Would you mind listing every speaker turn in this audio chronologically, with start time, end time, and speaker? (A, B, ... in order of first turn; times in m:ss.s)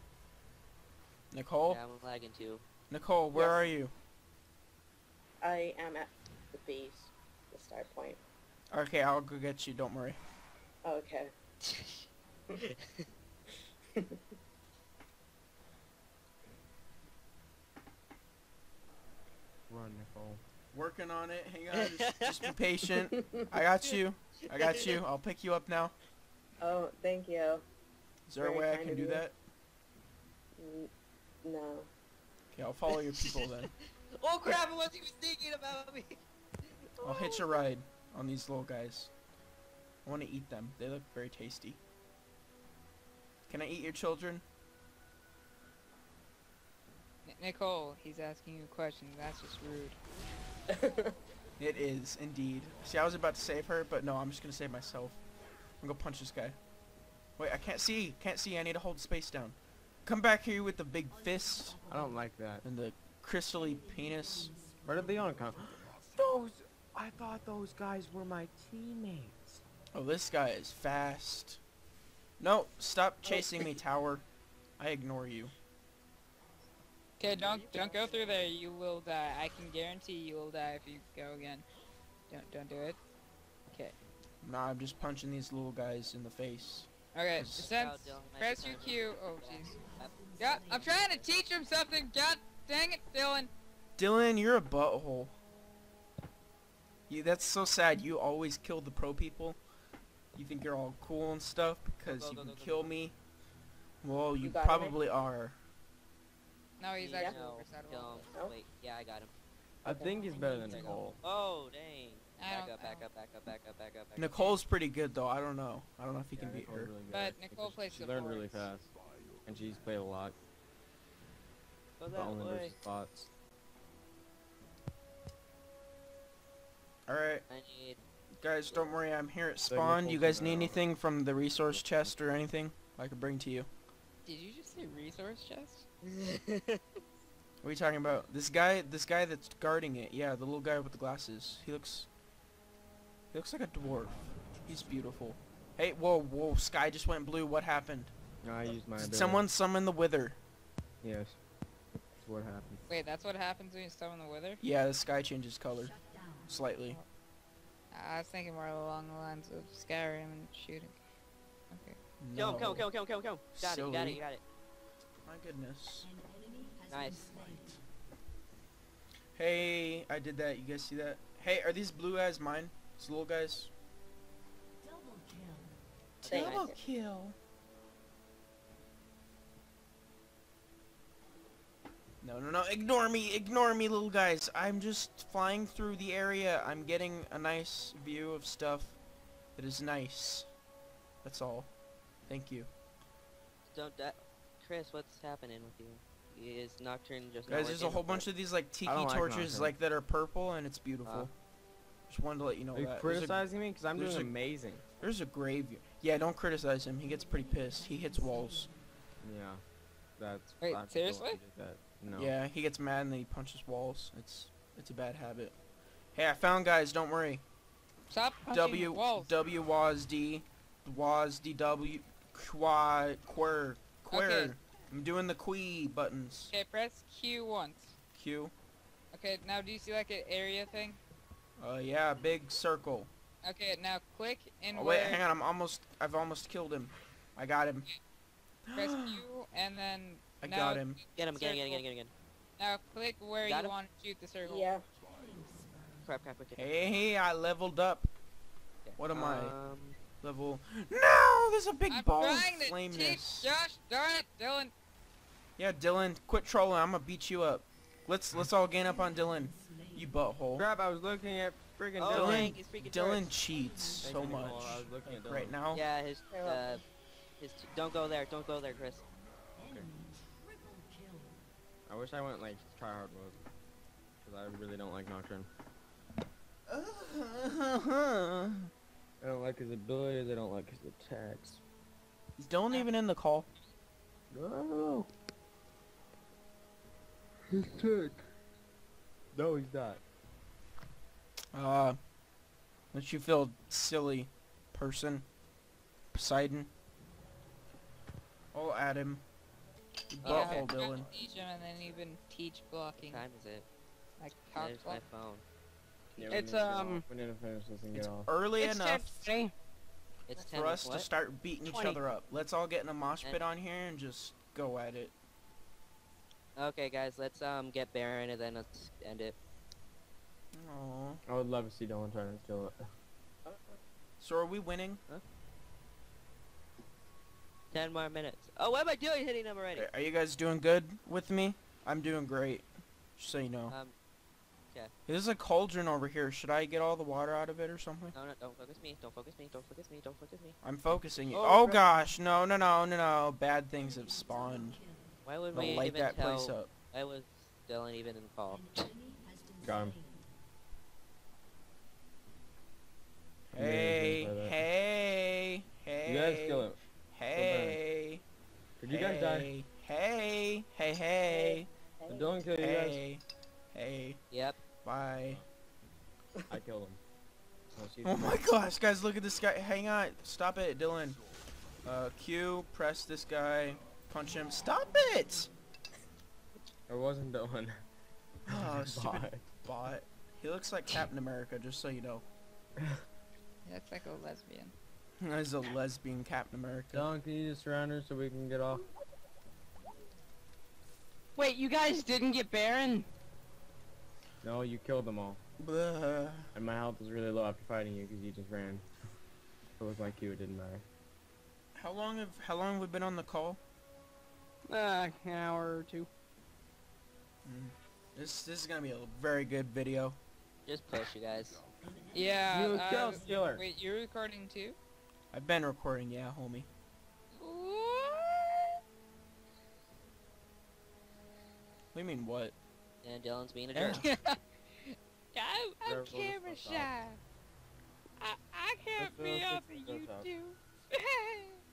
0:01.3-0:01.8 A
0:01.7-0:02.6 B
0:02.9-0:03.9 A
0:03.3-0:03.6 C
0:05.4-0:08.2 C
0:08.7-0:10.2 A
0:10.8-0:11.3 C
0:11.7-0:12.0 B
0:19.7-0:20.4 D
0:20.7-0:25.9 A
0:21.7-0:22.4 B
0:23.1-0:23.4 C
0:24.5-0:25.0 B
0:26.6-0:27.6 C
0:28.3-0:29.4 A
0:28.4-0:29.2 C
0:30.6-0:30.9 C
0:31.4-0:31.9 C
0:32.5-0:33.7 A
0:32.9-0:36.2 B
0:37.0-0:37.7 B
0:37.0-0:39.1 A
0:40.0-0:41.8 A
0:43.5-0:44.4 A
0:47.2-0:50.0 E
0:50.7-0:51.1 C
0:51.6-0:55.2 A
0:55.8-0:56.6 A
0:57.4-1:01.8 A
1:01.8-1:02.6 D
1:02.6-1:04.5 A
1:04.8-1:09.6 D
1:09.9-1:11.6 A
1:12.4-1:14.2 A
1:13.2-1:13.7 C
1:14.8-1:15.5 A
1:17.2-1:21.6 E
1:17.2-1:18.5 B
1:22.3-1:23.0 E
1:23.7-1:23.9 E
1:24.4-1:27.7 A
1:27.1-1:29.8 E
1:27.6-1:31.3 B
1:30.4-1:33.5 E
1:34.0-1:35.4 A
1:37.1-1:39.6 A
1:40.3-1:43.1 A
1:42.0-1:42.9 B
1:44.0-1:45.6 A
1:44.4-1:45.0 C
1:46.8-1:48.3 E
1:47.0-1:49.3 B
1:49.8-1:51.2 D
1:49.8-1:51.0 C
1:50.6-1:54.3 B
1:52.4-1:53.0 E
1:54.2-1:56.9 A
1:56.3-1:58.9 D
1:57.1-1:58.6 E
1:59.4-2:00.4 D
2:02.0-2:02.8 B
2:02.1-2:03.3 D
2:07.1-2:07.4 A
2:07.5-2:08.0 B
2:08.4-2:13.7 A
2:09.7-2:10.8 D
2:11.5-2:11.9 D
2:14.2-2:15.8 E
2:16.0-2:16.8 B
2:17.6-2:22.1 A
2:23.3-2:28.1 A
2:28.4-2:29.5 D
2:29.0-2:30.4 A
2:31.0-2:31.4 D
2:32.1-2:32.8 D
2:32.9-2:34.6 E
2:34.6-2:36.0 A
2:36.5-2:37.0 A
2:37.9-2:41.0 E
2:41.7-2:42.0 E
2:42.2-2:42.9 A
2:42.4-2:44.4 B
2:43.5-2:44.2 A
2:45.2-2:46.1 A
2:46.9-2:47.7 B
2:49.4-2:53.7 A
2:56.2-2:57.4 A
2:56.2-2:56.7 B
2:56.3-2:56.8 C
3:02.2-3:09.0 A
3:09.6-3:10.5 A
3:11.2-3:11.7 A
3:12.3-3:12.7 A
3:13.6-3:18.2 B
3:17.5-3:21.3 A
3:18.8-3:19.7 D
3:22.1-3:23.4 A
3:22.7-3:24.8 D
3:23.9-3:24.3 A
3:25.0-3:28.7 A
3:29.2-3:29.6 D
3:30.2-3:32.3 D
3:30.6-3:31.4 E
3:32.1-3:35.5 A
3:36.1-3:37.4 A
3:38.1-3:39.3 E
3:38.4-3:46.5 A
3:44.1-3:44.5 E
3:46.5-3:47.9 E
3:48.1-3:48.5 A
3:49.1-3:51.0 E
3:51.6-3:53.1 A
3:53.4-3:55.2 E
3:54.7-3:57.9 A
3:58.7-3:59.2 A
3:58.7-4:01.8 E
4:00.4-4:01.0 A
4:01.2-4:02.1 B
4:02.6-4:04.7 E
4:03.4-4:03.7 B
4:04.4-4:04.8 C
4:06.0-4:06.6 B
4:06.6-4:08.1 A
4:08.8-4:10.0 B
4:09.0-4:09.6 A
4:10.2-4:13.5 A
4:11.9-4:14.7 E
4:15.6-4:20.7 A
4:20.6-4:22.6 D
4:22.0-4:23.3 B
4:22.1-4:25.8 A
4:24.0-4:25.6 D
4:25.7-4:26.8 B
4:26.3-4:26.8 C
4:27.4-4:29.0 B
4:31.9-4:33.4 D
4:34.2-4:35.5 D
4:36.7-4:38.7 A
4:39.2-4:41.6 D
4:42.4-4:43.5 A
4:44.3-4:45.1 D
4:47.5-4:48.2 D
4:49.3-4:50.0 D
4:51.5-4:52.0 A
4:52.9-4:55.2 A
4:56.1-4:56.7 A
4:58.5-4:59.2 A
5:00.1-5:01.1 A
5:00.2-5:00.7 B
5:00.2-5:03.2 E
5:03.0-5:03.6 B
5:04.2-5:05.0 E
5:04.5-5:05.4 B
5:06.2-5:08.3 D
5:06.2-5:07.0 F
5:07.9-5:09.3 A
5:08.6-5:09.5 F
5:10.3-5:11.1 B
5:10.4-5:15.1 A
5:11.7-5:12.0 F
5:16.6-5:19.3 B
5:20.5-5:21.2 A
5:21.2-5:22.8 D
5:23.4-5:23.8 C
5:24.2-5:25.0 A
5:27.7-5:29.9 B
5:29.7-5:33.8 A
5:35.1-5:38.1 A
5:38.1-5:40.5 B
5:40.6-5:44.8 A
5:41.3-5:41.8 B
5:45.2-5:48.9 B
5:45.5-5:46.7 A
5:49.6-5:50.0 D
5:53.5-5:54.6 D
5:53.5-5:58.2 A
5:56.0-5:56.8 D
5:57.3-5:57.8 D
5:58.8-5:59.5 D
5:58.9-6:01.7 A
6:01.3-6:02.5 C
6:02.1-6:03.0 D
6:02.6-6:04.2 A
6:04.3-6:04.6 B
6:04.8-6:05.4 A
6:06.5-6:07.0 D
6:07.7-6:08.4 D
6:08.0-6:11.2 A
6:11.8-6:15.5 A
6:16.9-6:17.8 D
6:18.5-6:19.4 D
6:18.5-6:22.2 A
6:23.6-6:24.7 E
6:25.2-6:27.1 A
6:26.9-6:28.8 D
6:31.4-6:33.1 F
6:34.4-6:35.4 D
6:35.6-6:36.5 A
6:36.5-6:38.8 D
6:39.8-6:40.8 D
6:41.7-6:43.6 A
6:44.7-6:46.1 F
6:47.4-6:50.2 A
6:50.6-6:51.6 B
6:52.1-6:54.8 E
6:52.5-6:53.6 D
6:55.3-6:56.7 A
6:57.3-6:58.8 E
7:01.9-7:02.5 A
7:03.0-7:04.0 B
7:03.7-7:04.0 A
7:03.9-7:07.2 E
7:05.8-7:07.0 D
7:08.2-7:11.6 E
7:09.0-7:10.3 D